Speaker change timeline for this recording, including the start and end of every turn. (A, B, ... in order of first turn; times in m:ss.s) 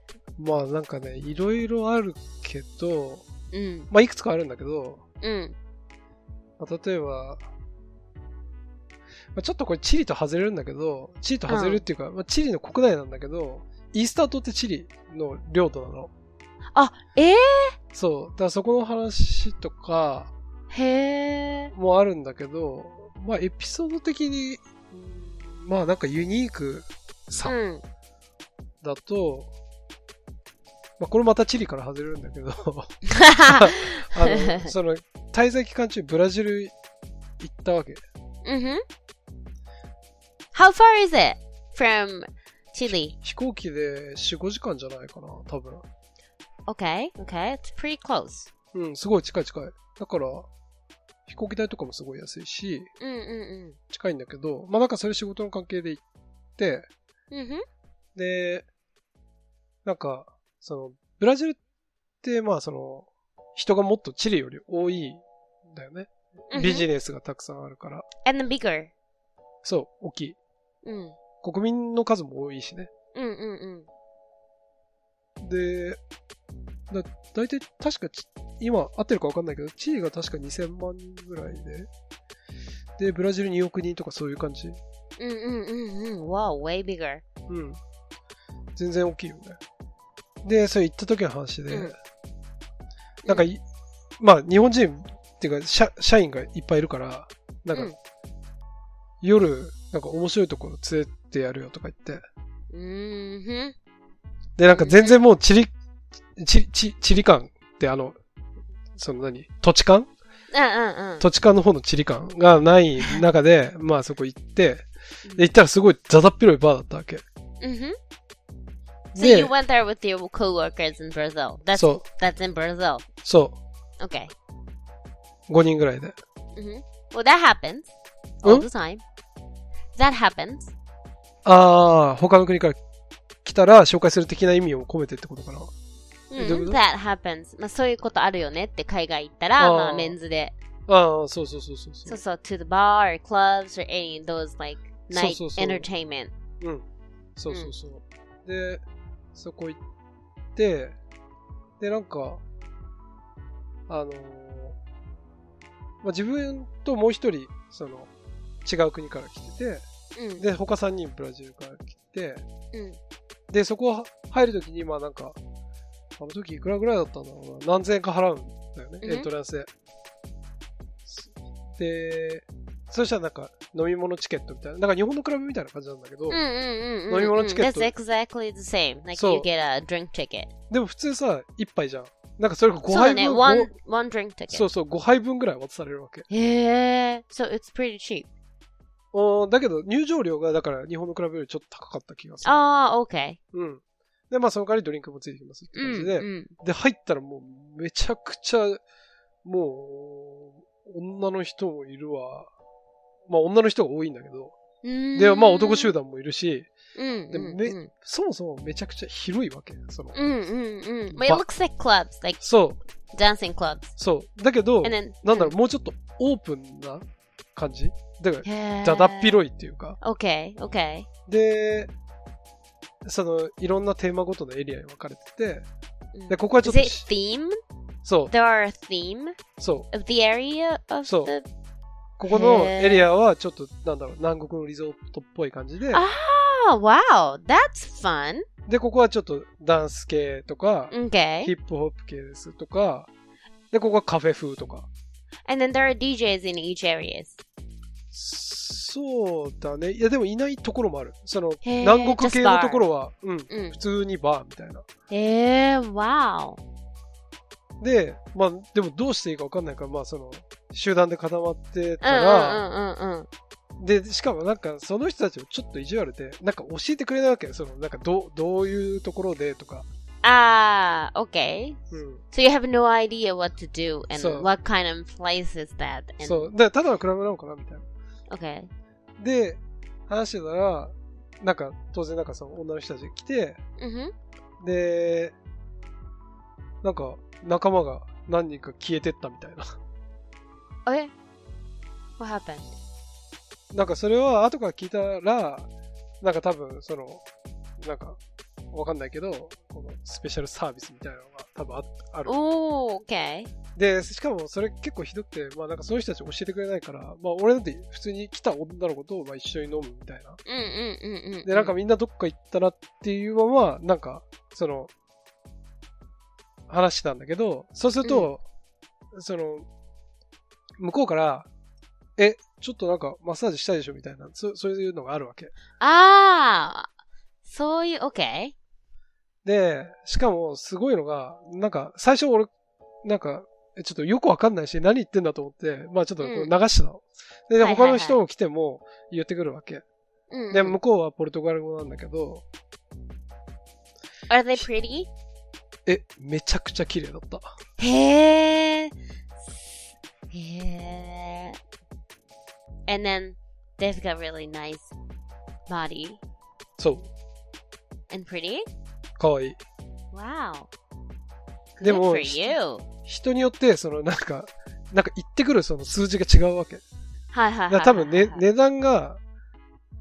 0:00.4-0:03.2 A
0:03.5-0:03.9 B
0:03.9-0:05.0 A
0:05.2-0:05.5 B
0:06.6-0:07.4 A
0:09.3-0:16.1 A
0:11.5-0:11.8 B
0:16.7-0:17.8 B
0:17.9-0:20.3 A
0:20.7-0:21.7 B
0:21.7-0:27.5 A
0:27.4-0:27.8 B
0:28.8-0:29.5 A
0:31.0-0:36.7 A
0:33.1-0:34.7 B
0:37.4-0:38.0 A
0:38.4-0:38.8 B
0:40.5-0:43.1 B
0:43.1-0:45.8 A
0:46.7-0:48.5 B
0:48.7-0:50.5 A
0:51.3-0:52.9 A
0:53.0-0:53.8 B
0:53.9-0:56.0 A
0:56.6-0:56.9 A
0:57.3-0:57.6 B
0:58.1-0:58.6 A
0:59.8-1:01.6 A
1:02.2-1:08.1 A
1:06.5-1:06.8 B
1:08.2-1:08.9 B
1:09.6-1:10.4 A
1:10.8-1:11.2 B
1:11.4-1:12.9 A
1:13.1-1:13.9 B
1:15.4-1:16.0 A
1:16.9-1:21.9 A
1:23.0-1:24.8 A
1:25.2-1:27.2 B
1:27.5-1:27.8 A
1:28.8-1:29.6 A
1:30.4-1:31.9 A
1:31.7-1:31.9 B
1:33.2-1:33.6 A
1:34.2-1:37.9 A
1:39.2-1:42.2 A
1:42.7-1:43.7 B
1:44.6-1:45.7 A
1:44.7-1:45.2 B
1:46.4-1:48.2 A
1:49.0-1:50.1 A
1:50.5-1:51.2 B
1:51.2-1:57.2 A
1:57.6-1:58.0 B
1:59.1-1:59.5 A
1:59.2-2:03.0 B
2:01.7-2:02.0 A
2:03.2-2:03.6 A
2:04.0-2:04.3 B
2:05.5-2:06.2 A
2:06.5-2:07.9 B
2:08.4-2:09.0 B
2:10.0-2:10.7 B
2:11.4-2:12.8 A
2:13.4-2:15.7 A
2:16.3-2:20.5 B
2:16.4-2:16.8 A
2:19.6-2:20.2 A
2:20.9-2:22.2 A
2:22.0-2:26.3 B
2:25.1-2:25.8 A
2:27.4-2:28.8 A
2:29.3-2:29.8 A
2:30.6-2:31.0 A
2:31.8-2:32.4 A
2:33.9-2:34.8 A
2:36.0-2:38.1 A
2:38.6-2:39.8 A
2:40.1-2:40.4 B
2:40.4-2:42.4 A
2:42.7-2:43.0 B
2:43.5-2:45.4 A
2:46.2-2:49.7 A
2:49.0-2:49.3 B
2:51.0-2:56.4 A
2:56.3-3:00.5 B
2:57.1-2:57.9 A
2:59.1-2:59.5 A
3:00.7-3:03.7 A
3:02.9-3:04.7 B
3:04.5-3:06.2 A
3:06.3-3:08.3 B
3:09.1-3:12.6 A
3:12.4-3:13.4 B
3:13.5-3:18.8 A
3:15.7-3:16.5 B
3:19.4-3:22.5 A
3:23.3-3:24.5 A
3:24.8-3:25.9 B
3:25.1-3:26.7 A
3:26.9-3:27.9 B
3:27.3-3:30.1 A
3:30.1-3:32.4 B
3:31.1-3:31.4 A
3:32.4-3:32.8 A
3:33.1-3:33.9 B
3:34.0-3:37.0 A
3:34.8-3:35.5 B
3:37.6-3:40.0 A
3:38.4-3:39.4 B
3:40.0-3:41.1 B
3:41.3-3:41.9 A
3:43.0-3:45.6 A
3:46.1-3:47.6 B
3:46.3-3:47.0 A
3:48.0-3:48.3 A
3:48.3-3:49.4 B
3:49.6-3:49.9 A
3:49.9-3:51.4 B
3:51.0-3:51.3 A
3:52.2-3:56.0 A
3:52.3-3:53.0 B
3:55.9-3:58.4 B
3:58.7-4:03.1 A
4:00.9-4:01.5 B
4:03.7-4:04.9 A
4:05.4-4:07.4 B
4:08.1-4:14.8 A
4:11.6-4:12.9 B
4:13.5-4:13.8 B
4:15.1-4:16.6 B
4:17.8-4:22.6 A
4:22.0-4:23.3 B
4:23.8-4:29.9 A
4:30.2-4:36.5 B
4:31.9-4:32.2 A
4:34.1-4:34.5 A
4:36.2-4:37.9 A
4:38.3-4:38.7 B
4:39.2-4:43.6 A
4:43.8-4:44.1 B
4:44.6-4:45.3 A
4:46.8-4:49.6 A
4:50.8-4:51.1 B
4:52.2-4:52.7 B
4:53.7-4:55.7 A
4:56.2-4:57.2 A
4:57.8-4:58.2 A
4:58.7-5:02.3 A
5:02.2-5:03.5 B
5:03.7-5:10.4 A
5:10.4-5:11.7 B
5:11.4-5:14.9 A
5:16.7-5:18.4 A
5:18.0-5:18.3 B
5:19.1-5:19.6 A
5:20.8-5:21.5 A
5:22.2-5:25.5 A
5:25.8-5:26.9 B
5:27.4-5:28.5 B
5:29.4-5:32.5 A
5:33.0-5:39.8 A
5:36.2-5:36.5 B
5:37.6-5:38.2 B
5:40.3-5:40.8 B
5:40.5-5:42.4 A
5:44.3-5:45.1 B
5:45.8-5:47.5 A
5:47.8-5:48.9 B
5:49.4-5:51.6 B
5:52.9-5:54.9 B
5:55.7-5:56.2 B
5:56.8-5:57.1 A
5:58.1-5:58.6 B
5:59.2-5:59.6 A
6:00.1-6:00.7 B
6:01.8-6:02.8 B
6:01.8-6:02.5 A
6:03.0-6:06.8 A
6:07.3-6:08.4 B
6:07.7-6:09.2 A